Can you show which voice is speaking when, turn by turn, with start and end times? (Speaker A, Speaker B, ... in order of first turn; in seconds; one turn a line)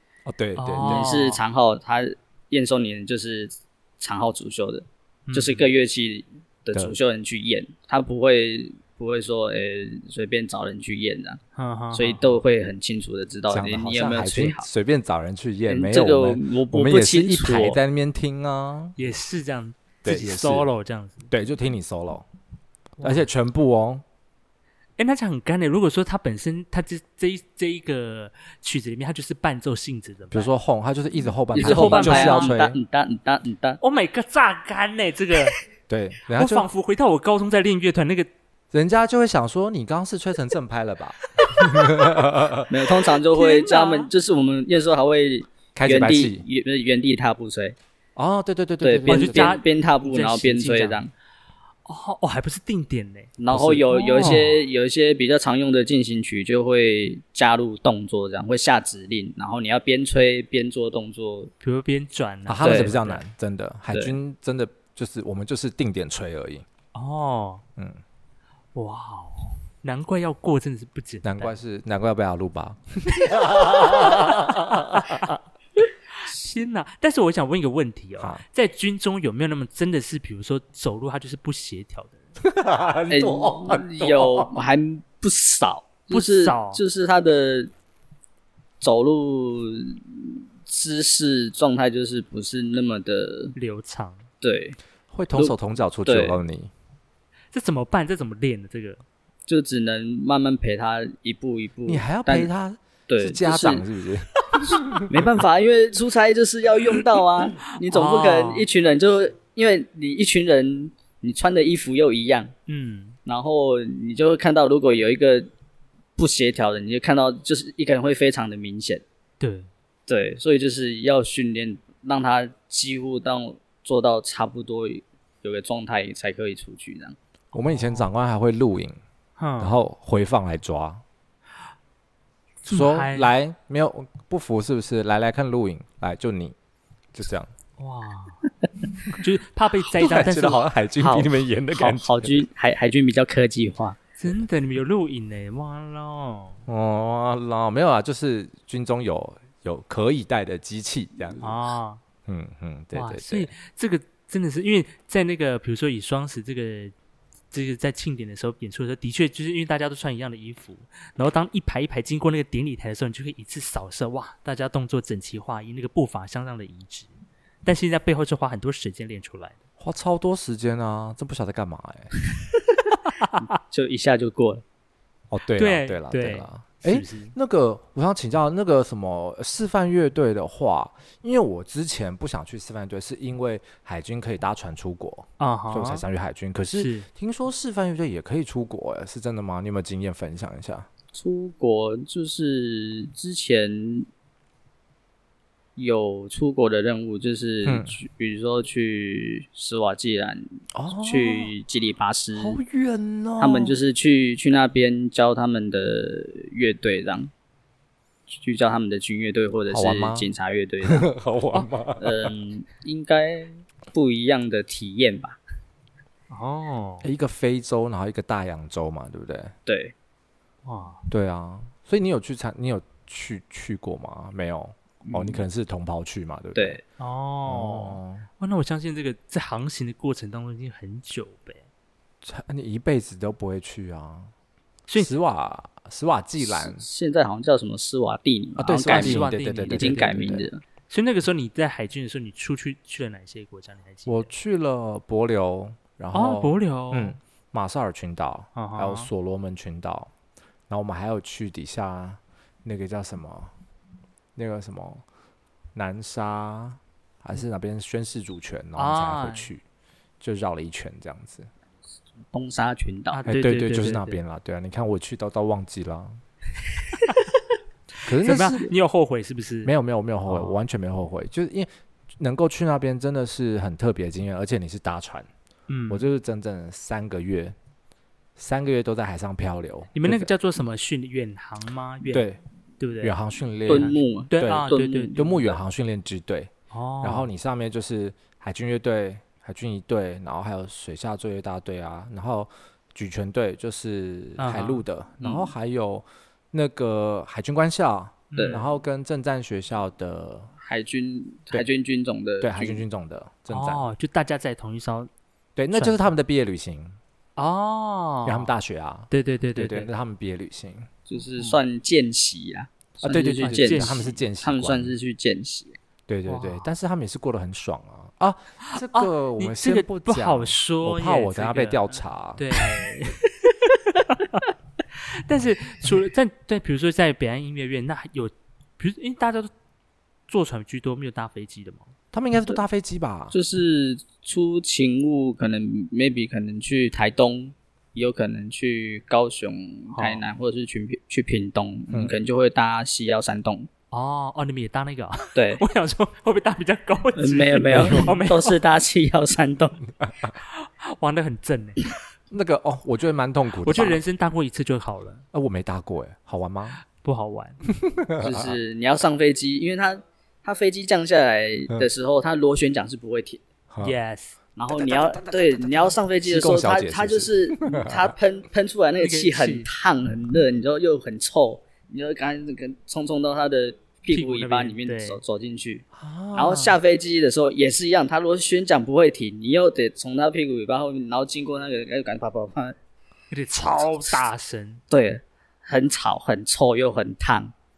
Speaker A: 0.3-1.2
Speaker B: 0.6-1.4
Speaker C: 0.8-11.4
Speaker B: 5.3-5.7
Speaker B: 11.6-12.3
Speaker C: 11.9-14.7
Speaker A: 13.5-18.9
Speaker C: 15.7-17.8
Speaker B: 19.0-21.3
Speaker A: 20.1-20.7
Speaker A: 21.3-22.3
Speaker B: 23.0-23.3
Speaker A: 23.0-24.0
Speaker B: 25.0-30.5
Speaker A: 30.3-32.8
Speaker C: 31.5-33.8
Speaker B: 31.6-32.6
Speaker B: 33.8-35.6
Speaker A: 35.9-36.7
Speaker B: 36.3-38.3
Speaker A: 38.7-42.7
Speaker C: 42.7-47.8
Speaker B: 43.2-44.1
Speaker A: 45.8-46.4
Speaker A: 48.2-49.6
Speaker C: 48.8-51.1
Speaker B: 49.1-51.0
Speaker B: 51.9-53.4
Speaker C: 53.4-61.5
Speaker A: 53.5-54.5
Speaker B: 53.9-54.6
Speaker B: 61.6-63.2
Speaker A: 62.5-66.6
Speaker C: 62.6-62.9
Speaker C: 63.9-64.2
Speaker B: 66.9-67.6
Speaker B: 68.8-71.5
Speaker A: 71.2-75.3
Speaker B: 73.3-75.3
Speaker B: 76.1-82.2
Speaker A: 82.4-84.5
Speaker C: 83.1-87.7
Speaker B: 86.1-86.8
Speaker C: 88.8-93.5
Speaker B: 93.6-94.2
Speaker C: 94.4-94.8
Speaker A: 95.1-96.7
Speaker C: 95.3-96.4
Speaker B: 97.5-99.0
Speaker C: 99.5-102.5
Speaker A: 101.9-105.2
Speaker C: 103.1-103.8
Speaker C: 105.1-112.5
Speaker B: 107.8-108.7
Speaker B: 112.7-113.2
Speaker C: 113.3-115.5
Speaker C: 116.2-119.0
Speaker B: 119.4-119.7
Speaker C: 120.1-127.2
Speaker A: 127.5-129.0
Speaker B: 127.5-128.1
Speaker B: 129.4-129.7
Speaker A: 129.6-131.0
Speaker B: 132.6-133.3
Speaker A: 132.7-136.6
Speaker A: 137.1-137.5
Speaker B: 137.8-138.4
Speaker B: 139.1-140.6
Speaker A: 139.9-142.4
Speaker C: 141.0-144.0
Speaker B: 144.2-146.6
Speaker A: 146.7-151.6
Speaker B: 151.4-152.0
Speaker A: 152.3-153.5
Speaker B: 152.9-156.9
Speaker B: 157.5-167.1
Speaker B: 167.6-169.6
Speaker A: 169.8-172.1
Speaker C: 173.4-174.6
Speaker A: 175.3-190.9
Speaker B: 175.6-177.3
Speaker B: 185.4-186.0
Speaker B: 186.7-187.1
Speaker C: 191.1-194.1
Speaker C: 195.8-202.6
Speaker A: 197.6-197.9
Speaker A: 200.7-201.5
Speaker A: 202.4-203.8
Speaker C: 203.4-207.3
Speaker C: 208.4-211.1
Speaker A: 209.7-210.3
Speaker A: 210.8-212.3
Speaker C: 212.0-215.4
Speaker B: 216.3-217.1
Speaker A: 217.0-219.6
Speaker C: 219.7-219.9
Speaker B: 220.6-221.0
Speaker A: 221.1-226.8
Speaker C: 225.0-225.4
Speaker C: 226.6-226.8
Speaker B: 227.0-231.6
Speaker A: 227.4-228.3
Speaker A: 232.2-234.3
Speaker B: 234.9-235.1
Speaker A: 235.0-236.8
Speaker C: 236.4-240.6
Speaker A: 238.6-240.5
Speaker B: 238.8-244.3
Speaker A: 244.1-250.1
Speaker B: 246.1-247.2
Speaker B: 248.6-249.1
Speaker A: 250.7-253.5
Speaker A: 254.4-255.0
Speaker A: 255.8-259.6
Speaker B: 258.8-259.5
Speaker A: 260.2-261.5
Speaker C: 262.3-263.3
Speaker B: 263.1-264.2
Speaker A: 263.3-266.2
Speaker B: 268.0-269.7
Speaker A: 268.1-268.7
Speaker A: 269.6-275.3
Speaker B: 270.3-270.6
Speaker B: 275.7-276.1
Speaker A: 275.9-277.6
Speaker A: 278.4-280.3
Speaker B: 279.9-282.3
Speaker A: 282.1-282.4
Speaker B: 282.8-283.2
Speaker A: 283.0-300.5
Speaker B: 283.7-285.2
Speaker C: 283.7-285.6
Speaker B: 286.7-287.3
Speaker B: 294.4-294.8
Speaker C: 295.2-295.5
Speaker B: 298.3-298.7
Speaker C: 298.4-298.6
Speaker C: 300.6-302.8
Speaker A: 302.4-303.9
Speaker B: 303.5-305.1
Speaker A: 305.6-307.0
Speaker B: 305.7-306.0
Speaker B: 307.4-308.5
Speaker A: 308.2-310.9
Speaker B: 309.1-309.9
Speaker C: 311.1-315.8
Speaker A: 313.0-314.9
Speaker B: 313.4-314.1
Speaker A: 316.1-322.6
Speaker B: 316.3-316.7
Speaker B: 318.7-329.5
Speaker B: 330.3-331.9
Speaker A: 332.1-333.4
Speaker C: 333.3-343.7
Speaker B: 339.9-340.2
Speaker B: 343.9-348.6
Speaker C: 345.4-345.6
Speaker C: 347.2-349.8
Speaker A: 350.0-350.3
Speaker B: 350.3-351.9
Speaker A: 352.3-354.0
Speaker B: 353.6-355.2
Speaker A: 355.3-356.8
Speaker B: 356.9-357.6
Speaker A: 357.8-358.6
Speaker C: 358.2-363.4
Speaker A: 363.7-363.9
Speaker B: 363.8-364.4
Speaker C: 364.6-382.8
Speaker A: 364.9-368.1
Speaker B: 369.0-369.7
Speaker B: 374.1-375.2
Speaker A: 375.9-376.8
Speaker B: 383.3-384.8
Speaker C: 383.8-384.2
Speaker C: 384.9-387.5